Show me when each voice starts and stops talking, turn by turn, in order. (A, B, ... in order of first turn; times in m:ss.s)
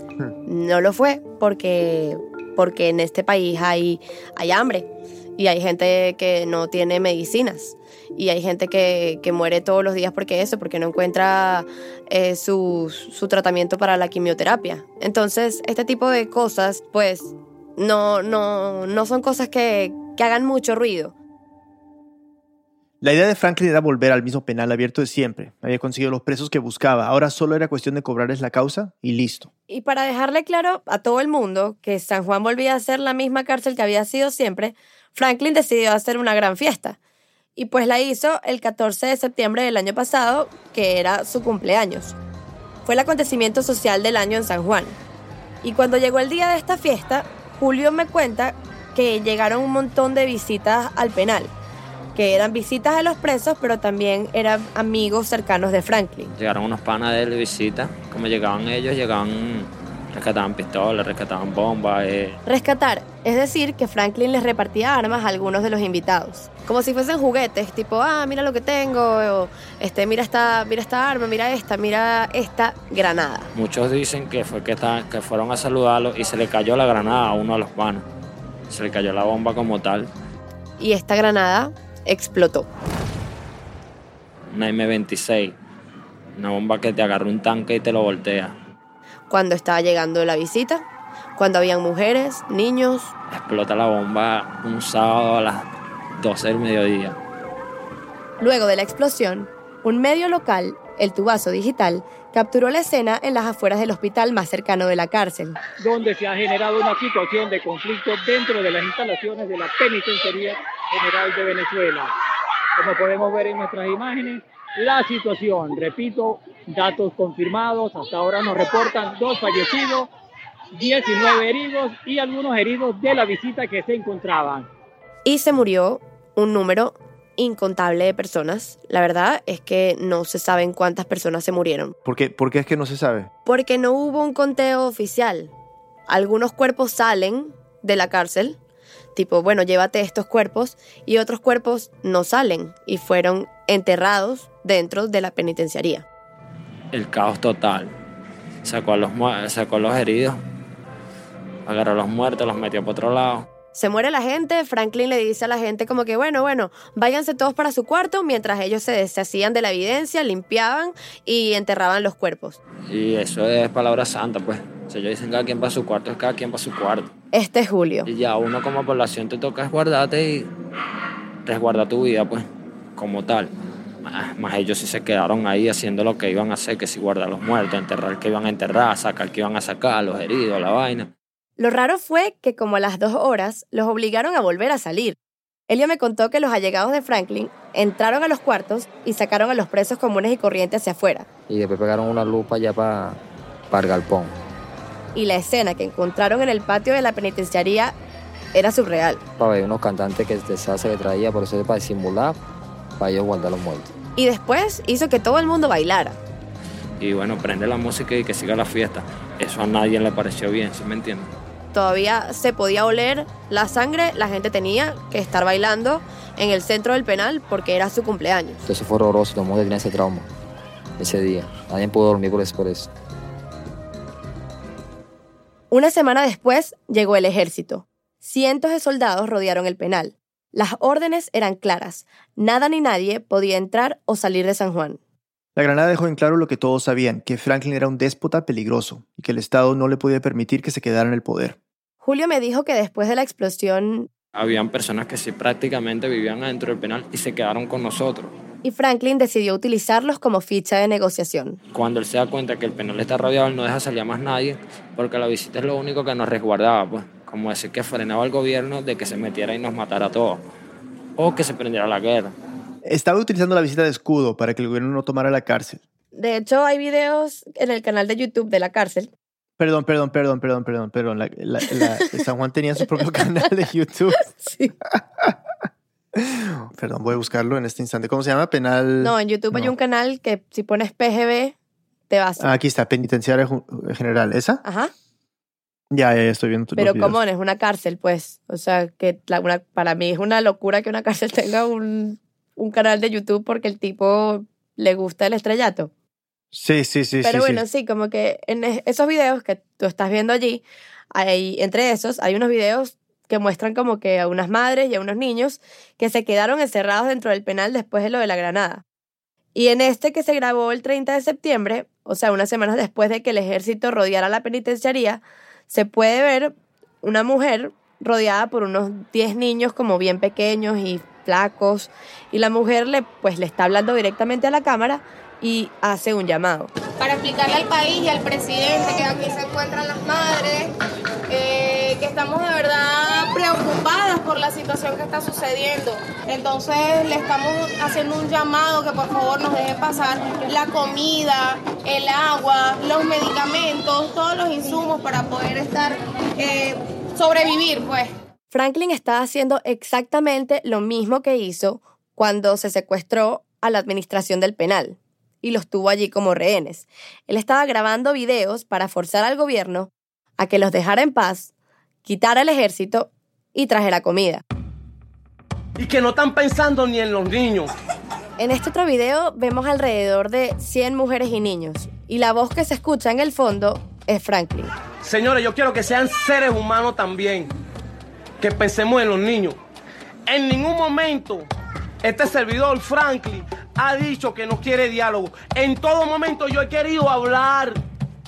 0:00.5-0:21.1 A
0:23.0-0:29.5 B
0:29.7-0:37.0 A
0:37.6-0:42.2 A
0:42.8-0:45.0 A
0:45.6-0:51.5 A
0:52.1-0:56.3 A
0:56.3-1:02.4 C
1:02.4-1:13.5 A
1:13.5-1:18.0 C
1:18.7-1:20.1 C
1:20.8-1:22.7 A
1:24.5-1:25.5 C
1:26.4-1:28.5 C
1:29.3-1:30.8 A
1:31.4-1:33.1 A
1:33.3-1:37.2 C
1:38.4-1:45.6 A
1:45.8-1:52.1 D
1:52.8-2:00.1 D
2:00.7-2:04.7 D
2:05.2-2:11.9 A
2:12.0-2:13.3 B
2:13.4-2:15.5 A
2:16.1-2:18.6 A
2:19.2-2:26.0 A
2:26.9-2:27.9 C
2:28.6-2:30.4 C
2:31.6-2:33.5 C
2:33.7-2:42.6 A
2:42.9-2:47.1 C
2:47.3-2:48.1 A
2:48.0-2:50.5 C
2:51.4-2:52.4 C
2:53.0-2:53.5 C
2:54.0-3:01.1 C
3:01.6-3:05.2 A
3:05.7-3:11.3 A
3:11.5-3:13.2 E
3:13.7-3:14.3 E
3:15.1-3:17.9 A
3:18.5-3:19.2 A
3:19.4-3:22.4 E
3:23.0-3:23.9 E
3:24.2-3:26.2 A
3:27.0-3:31.3 C
3:31.7-3:38.6 A
3:38.6-3:40.3 E
3:41.0-3:42.9 E
3:45.7-3:55.0 A
3:55.6-4:01.6 B
4:02.0-4:04.1 A
4:04.3-4:08.3 C
4:08.6-4:11.6 A
4:11.7-4:20.4 C
4:21.2-4:22.3 C
4:22.8-4:25.8 B
4:26.1-4:29.1 A
4:29.6-4:34.2 B
4:34.4-4:34.7 A
4:34.9-4:35.4 B
4:36.1-4:39.7 B
4:39.0-4:41.5 A
4:42.1-4:42.5 A
4:42.4-4:44.6 B
4:44.6-4:44.9 A
4:45.9-4:47.2 B
4:46.8-4:55.9 A
4:56.5-4:57.6 B
4:57.2-5:08.8 A
5:09.5-5:26.7 A
5:27.0-5:30.7 F
5:31.3-5:48.1 F
5:48.5-6:01.5 A
6:02.0-6:04.4 A
6:05.8-6:07.7 G
6:08.4-6:14.7 A
6:15.0-6:17.5 G
6:18.4-6:19.6 G
6:20.3-6:21.4 G
6:22.0-6:27.8 G